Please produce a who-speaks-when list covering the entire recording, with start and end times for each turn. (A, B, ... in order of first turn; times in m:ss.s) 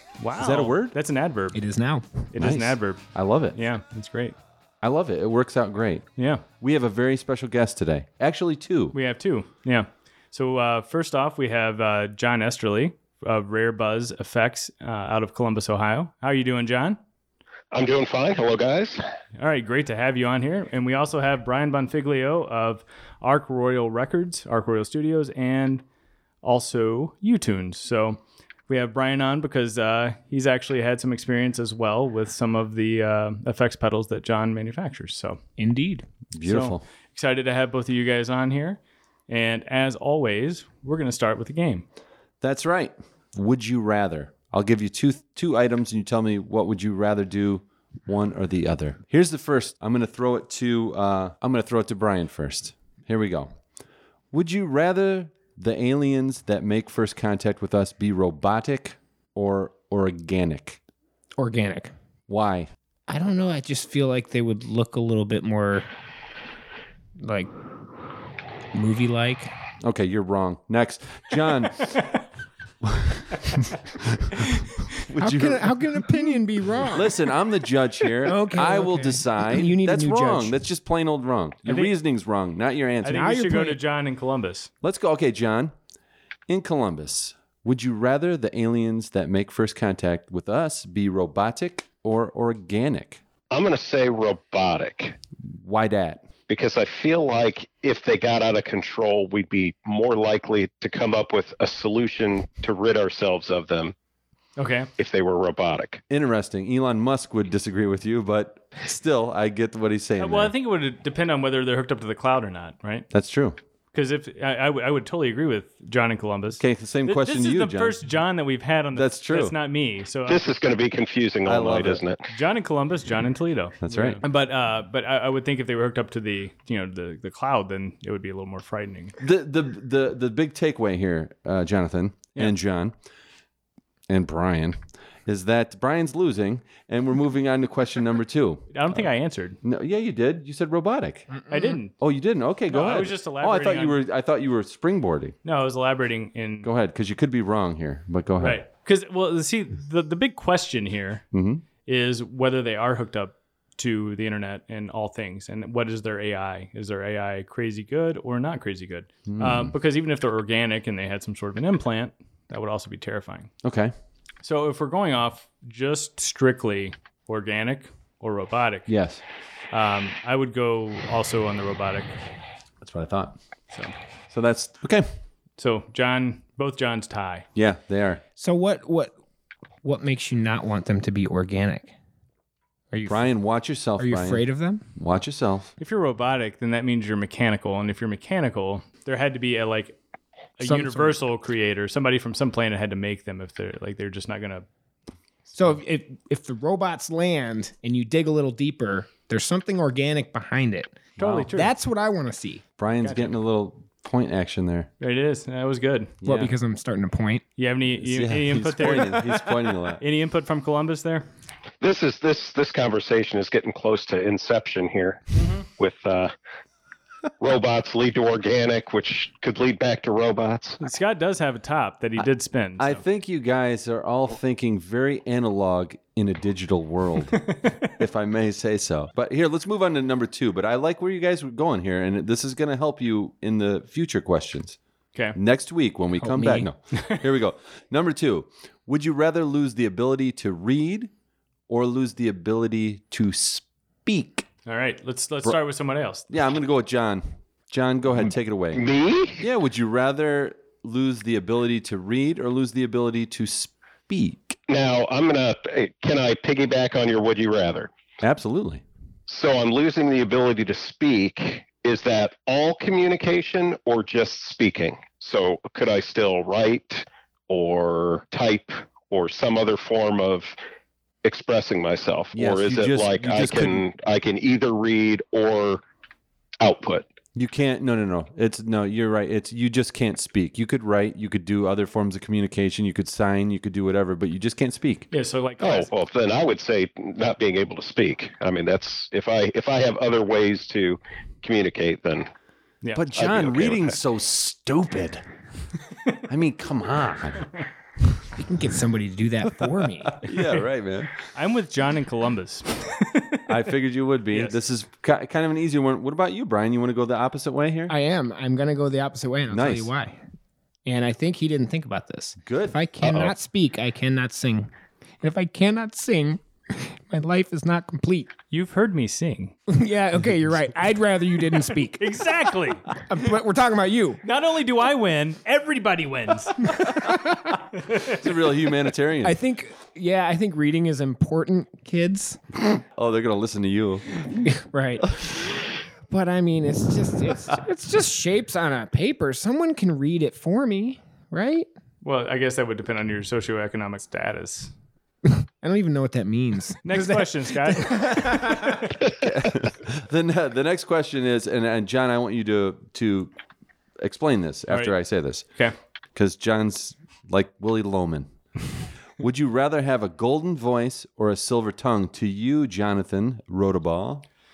0:00.2-0:01.6 A
0:00.4-0:01.0 B
0:01.5-0:02.2 C
0:02.3-0:03.0 A
0:02.4-0:03.6 B
0:03.5-0:04.4 A
0:04.8-0:06.1 B
0:06.2-0:06.4 A
0:06.6-0:09.0 B
0:08.9-0:17.0 A
0:17.7-0:19.0 D
0:19.4-0:25.8 A
0:26.4-0:35.4 A
0:35.6-0:36.1 C
0:36.4-0:36.8 B
0:36.4-0:41.9 A
0:42.4-0:53.5 B
0:54.3-1:00.8 B
1:01.4-1:01.9 C
1:02.3-1:02.7 B
1:03.1-1:05.9 C
1:07.2-1:07.5 C
1:08.7-1:09.5 C
1:09.8-1:12.0 B
1:12.8-1:16.2 B
1:15.2-1:17.2 C
1:16.8-1:23.3 B
1:18.2-1:20.6 C
1:21.7-1:21.9 A
1:23.0-1:24.7 A
1:23.1-1:23.8 C
1:24.8-1:25.7 B
1:26.5-1:33.2 B
1:33.5-1:35.2 D
1:35.5-1:36.3 B
1:36.5-1:44.0 D
1:44.6-1:44.9 A
1:45.0-1:46.0 D
1:46.1-1:50.5 B
1:50.2-1:53.1 A
1:53.1-1:53.6 B
1:53.9-2:00.4 A
1:56.6-1:58.0 B
1:58.9-1:59.5 B
2:00.3-2:02.2 D
2:01.4-2:02.0 B
2:02.3-2:09.1 A
2:03.8-2:04.2 B
2:09.2-2:12.9 B
2:14.1-2:19.1 B
2:18.7-2:19.6 A
2:19.6-2:21.4 B
2:21.3-2:21.8 C
2:21.5-2:21.9 A
2:22.0-2:25.4 B
2:22.7-2:24.0 A
2:25.4-2:26.7 A
2:26.6-2:28.6 B
2:28.4-2:31.2 A
2:31.3-2:31.6 B
2:31.8-2:43.5 A
2:39.3-2:39.7 B
2:43.6-2:43.9 B
2:44.4-2:48.9 A
2:48.9-2:49.2 B
2:49.7-2:52.2 A
2:52.8-2:53.4 B
2:54.3-2:55.1 B
2:55.6-2:57.5 A
2:57.6-2:58.2 B
2:58.4-2:59.1 C
2:59.8-3:01.9 C
3:02.9-3:03.3 C
3:03.1-3:04.4 B
3:04.0-3:04.8 C
3:05.0-3:05.7 B
3:05.8-3:10.0 A
3:10.6-3:14.7 A
3:10.6-3:11.2 C
3:15.5-3:22.6 C
3:21.2-3:21.5 B
3:21.2-3:21.7 A
3:22.8-3:24.9 B
3:23.0-3:23.3 A
3:25.0-3:26.2 A
3:26.2-3:26.5 B
3:26.2-3:27.4 C
3:27.6-3:31.3 A
3:27.9-3:30.0 B
3:31.8-3:36.3 D
3:35.3-3:35.7 A
3:37.4-3:40.8 D
3:40.8-3:43.0 A
3:42.8-3:54.8 B
3:47.4-3:47.9 A
3:55.4-4:01.1 B
3:56.2-3:56.7 C
4:01.7-4:04.5 B
4:04.7-4:06.3 A
4:06.3-4:08.8 B
4:08.7-4:09.4 D
4:09.4-4:14.6 B
4:14.7-4:17.9 D
4:18.2-4:18.8 B
4:19.3-4:30.6 D
4:31.2-4:35.8 D
4:32.3-4:33.8 B
4:36.6-4:37.1 D
4:37.4-4:45.1 B
4:45.1-4:45.9 A
4:45.6-4:52.3 D
4:53.0-4:55.2 B
4:53.2-4:54.0 D
4:56.3-4:57.5 B
4:58.4-5:00.3 C
5:00.2-5:01.1 B
5:01.3-5:03.5 A
5:03.5-5:07.9 B
5:07.9-5:10.2 C
5:09.5-5:09.9 B
5:10.9-5:18.3 C
5:12.4-5:12.8 B
5:13.0-5:13.3 D
5:18.5-5:19.6 A
5:19.7-5:22.3 C
5:22.0-5:22.9 A
5:22.9-5:24.2 C
5:24.2-5:26.8 A
5:26.7-5:27.4 C
5:27.9-5:28.2 A
5:28.0-5:29.4 B
5:29.2-5:32.4 C
5:33.0-5:34.4 B
5:34.4-5:35.2 C
5:35.1-5:35.5 B
5:36.1-5:41.7 C
5:42.0-5:44.7 A
5:45.3-5:49.0 C
5:46.8-5:48.7 A
5:49.1-5:53.3 B
5:54.0-5:55.4 B
5:56.2-5:58.3 B
5:59.2-6:04.2 B